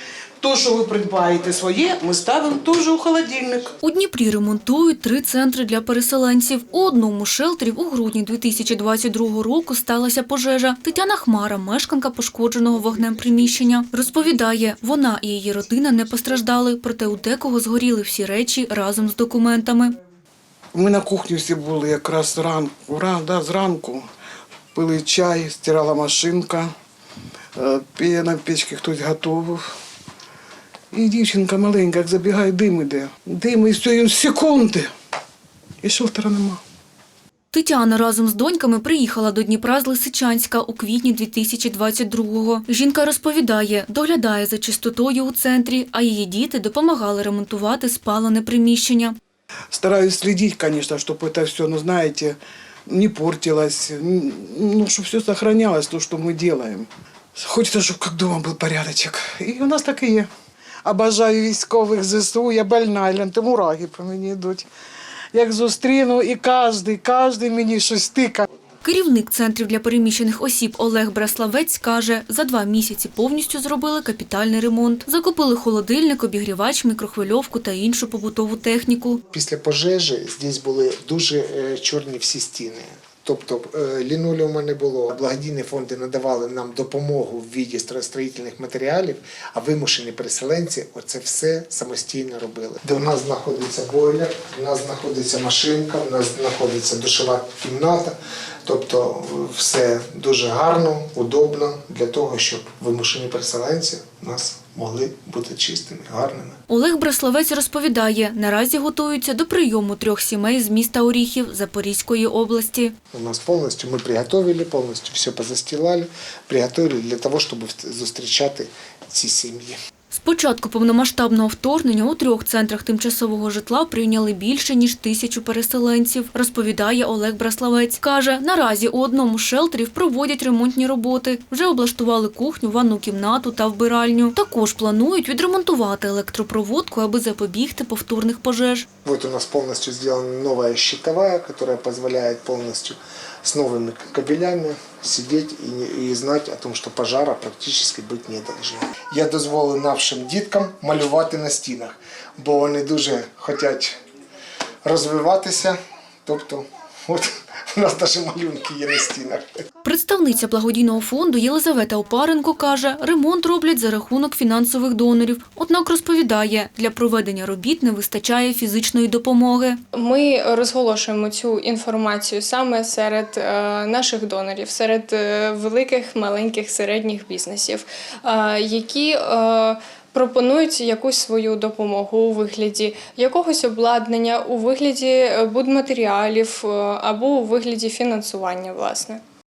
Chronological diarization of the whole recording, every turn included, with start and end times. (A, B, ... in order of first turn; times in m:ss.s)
0:00.4-0:03.7 A
0:03.8-0:20.0 B
0:20.7-0:24.1 A
0:24.7-0:26.7 A
0:27.6-0:29.6 A
0:30.9-0:34.9 A
0:35.8-0:36.6 A
0:37.5-0:49.2 B
0:49.7-1:00.3 A
1:00.8-1:04.7 A
1:05.3-1:08.5 A
1:08.8-1:19.2 B
1:19.3-1:46.6 C
1:46.7-1:52.9 B
1:53.1-1:59.8 C
2:00.1-2:18.9 B
2:19.0-2:34.0 C
2:34.8-2:39.5 C
2:39.8-2:49.8 B
2:50.0-3:09.2 D